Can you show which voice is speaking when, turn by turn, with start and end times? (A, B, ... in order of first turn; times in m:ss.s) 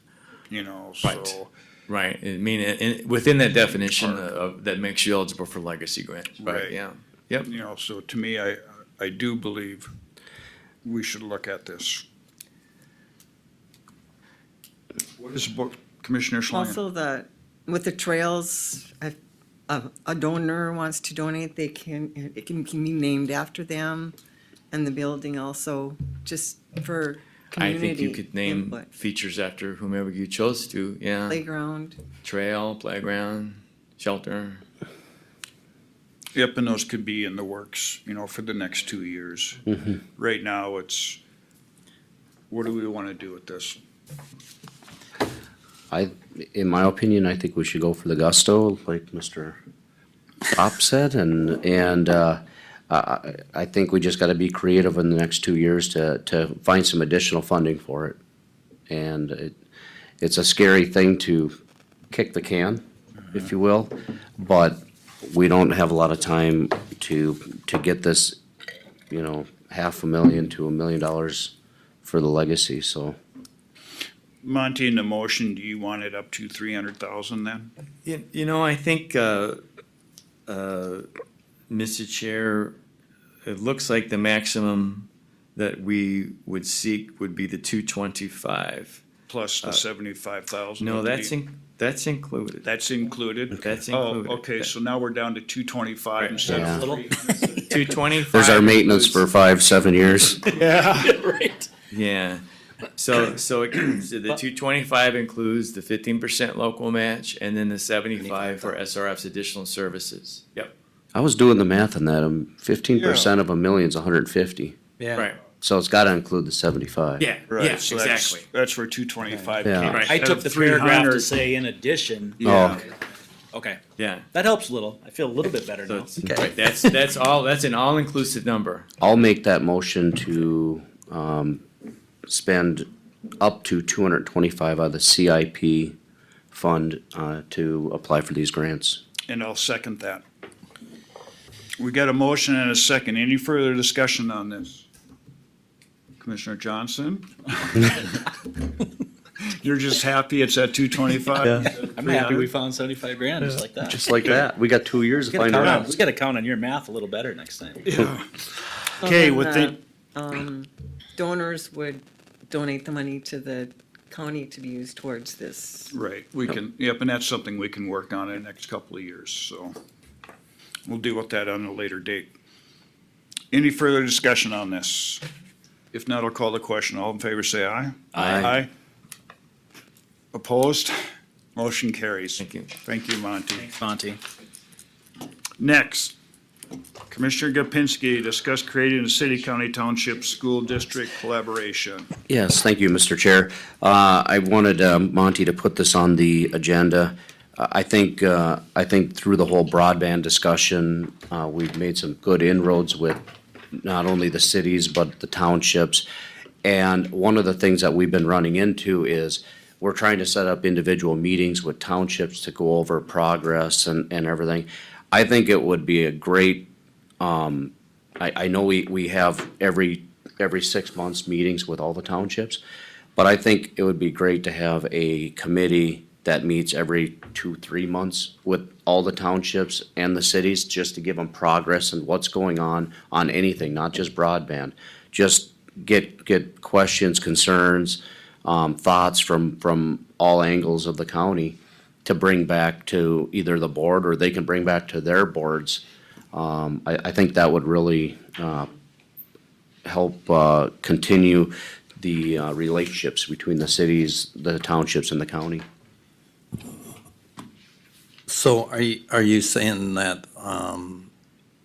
0:00.5-0:01.5 A
0:01.0-0:01.4 B
0:01.9-0:07.5 B
0:04.0-0:04.2 A
0:06.4-0:06.7 A
0:07.4-0:09.9 A
0:10.8-0:12.0 A
0:15.2-0:16.8 A
0:16.5-0:19.2 C
0:19.7-0:24.1 C
0:24.7-0:28.9 C
0:27.6-0:31.4 B
0:31.3-0:32.0 C
0:32.2-0:34.6 B
0:36.3-0:39.6 A
0:39.7-0:40.0 D
0:40.2-0:41.2 A
0:42.5-0:43.8 A
0:45.9-0:49.6 D
0:50.5-0:58.2 D
0:58.9-0:59.6 D
1:00.2-1:01.5 D
1:02.1-1:02.8 D
1:03.3-1:08.4 D
1:09.1-1:11.5 D
1:12.0-1:13.2 D
1:14.4-1:17.7 A
1:18.0-1:19.6 B
1:20.5-1:21.1 B
1:21.7-1:22.8 B
1:23.4-1:29.0 B
1:29.3-1:31.3 A
1:30.8-1:32.7 B
1:32.6-1:37.1 A
1:33.6-1:34.7 B
1:36.2-1:36.9 B
1:36.5-1:36.8 D
1:36.7-1:37.6 E
1:37.6-1:39.2 B
1:38.3-1:40.4 D
1:40.5-1:41.2 A
1:41.0-1:41.7 E
1:41.9-1:42.4 B
1:43.0-1:50.7 B
1:48.2-1:48.8 E
1:51.1-1:54.8 D
1:53.0-1:53.3 A
1:55.0-1:55.3 E
1:55.6-1:57.2 D
1:57.2-1:58.5 B
1:57.5-2:01.3 A
1:59.3-2:02.4 E
1:59.6-2:00.0 D
1:59.8-2:00.1 B
2:02.4-2:02.8 A
2:02.4-2:02.8 D
2:03.5-2:03.8 E
2:04.0-2:04.2 B
2:04.3-2:06.4 E
2:05.8-2:08.9 B
2:09.0-2:11.6 D
2:12.3-2:12.9 D
2:13.4-2:15.9 D
2:16.5-2:19.0 D
2:19.3-2:20.2 A
2:21.8-2:24.8 A
2:26.2-2:28.3 A
2:29.4-2:32.5 A
2:31.6-2:34.0 E
2:33.9-2:35.9 D
2:35.3-2:38.0 E
2:37.9-2:38.2 A
2:39.0-2:39.7 A
2:39.0-2:45.9 C
2:45.9-2:49.8 A
2:50.9-2:52.3 A
2:53.5-2:55.2 A
2:55.9-2:58.7 A
2:58.1-2:58.5 E
2:58.2-2:58.5 D
3:00.3-3:01.0 A
3:01.6-3:03.7 A
3:02.4-3:02.7 B
3:03.6-3:04.2 E
3:05.6-3:06.2 A
3:07.1-3:12.1 A
3:12.3-3:23.2 D
3:23.7-3:26.0 D
3:26.6-3:36.7 D
3:37.2-3:42.6 D
3:43.2-4:05.8 D
4:06.3-4:08.7 D
4:09.8-4:15.6 D
4:18.3-4:21.1 F